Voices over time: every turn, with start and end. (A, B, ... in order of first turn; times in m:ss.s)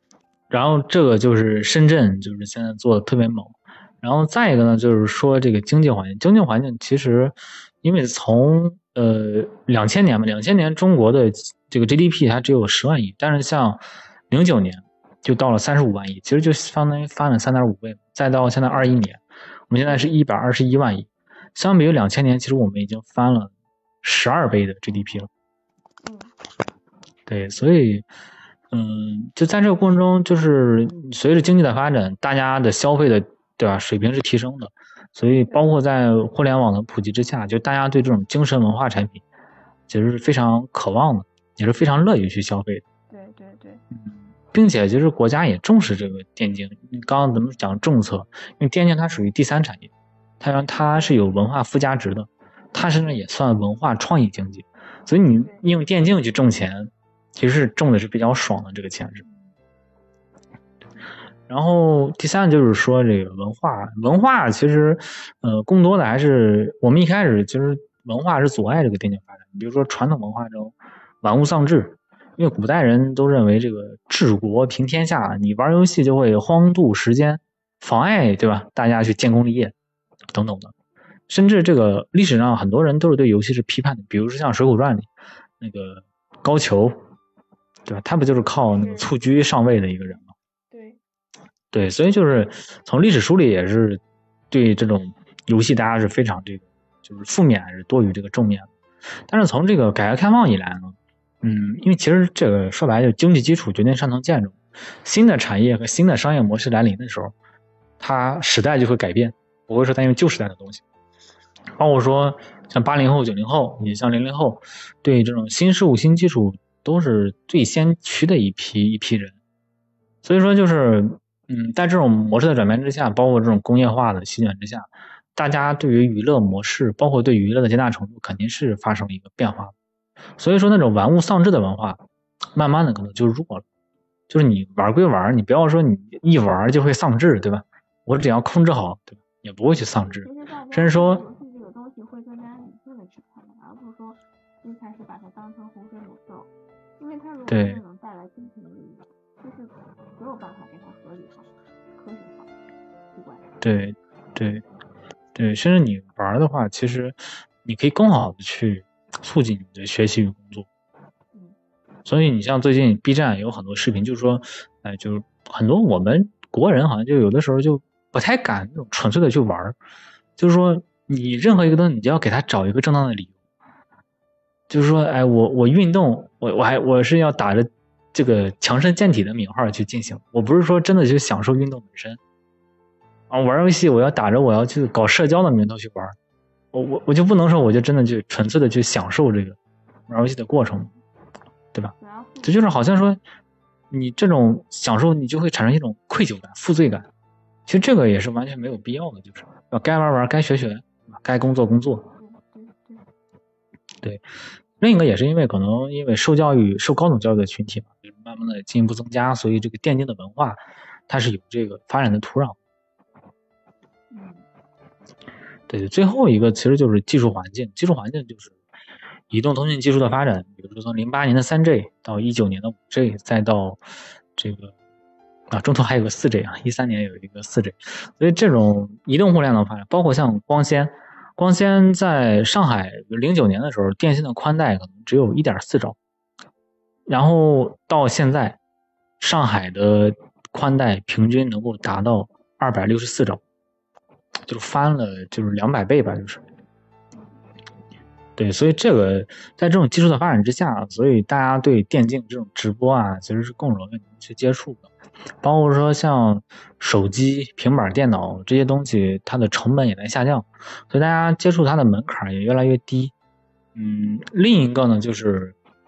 0:00.5-0:25.3 A
0:19.8-0:20.1 B
0:26.0-0:26.3 B
0:27.3-0:28.1 A
0:28.7-0:39.2 A
0:39.9-0:42.8 A
0:43.1-0:43.8 B
0:44.0-0:49.9 A
0:50.4-0:59.2 A
0:50.8-0:51.2 B
0:52.8-0:53.2 B
0:55.4-0:55.7 B
0:59.2-0:59.5 B
1:01.5-1:19.7 A
1:20.3-1:20.7 A
1:21.3-1:25.1 A
1:25.6-1:27.0 A
1:27.9-1:30.3 A
1:28.8-1:29.1 B
1:30.1-1:31.0 B
1:31.7-1:34.0 A
1:34.5-1:38.7 A
1:39.3-1:47.3 A
1:48.0-1:50.8 A
1:51.8-1:59.4 A
2:00.2-2:09.7 A
2:10.4-2:12.0 A
2:12.5-2:13.6 A
2:14.3-2:21.2 A
2:20.0-2:32.5 B
2:27.5-2:27.8 A
2:33.1-2:33.5 B
2:33.6-2:34.6 A
2:35.4-2:40.7 A
2:42.1-2:49.8 A
2:50.4-2:53.4 A
2:54.7-3:02.2 A
3:03.3-3:06.2 A
3:06.7-3:09.6 A
3:10.1-3:11.0 A
3:11.7-3:13.2 A
3:12.0-3:12.8 B
3:13.9-3:17.1 A
3:17.7-3:22.1 A
3:22.2-3:23.0 B
3:24.8-3:32.6 A
3:34.1-3:34.4 B
3:35.7-3:38.6 A
3:39.3-3:43.8 A
3:44.4-3:44.8 A
3:45.5-3:56.0 A
3:57.1-3:58.6 A
3:59.2-4:03.4 A
4:04.5-4:06.4 A
4:08.4-4:14.9 A
4:15.4-4:23.1 A
4:23.8-4:25.6 A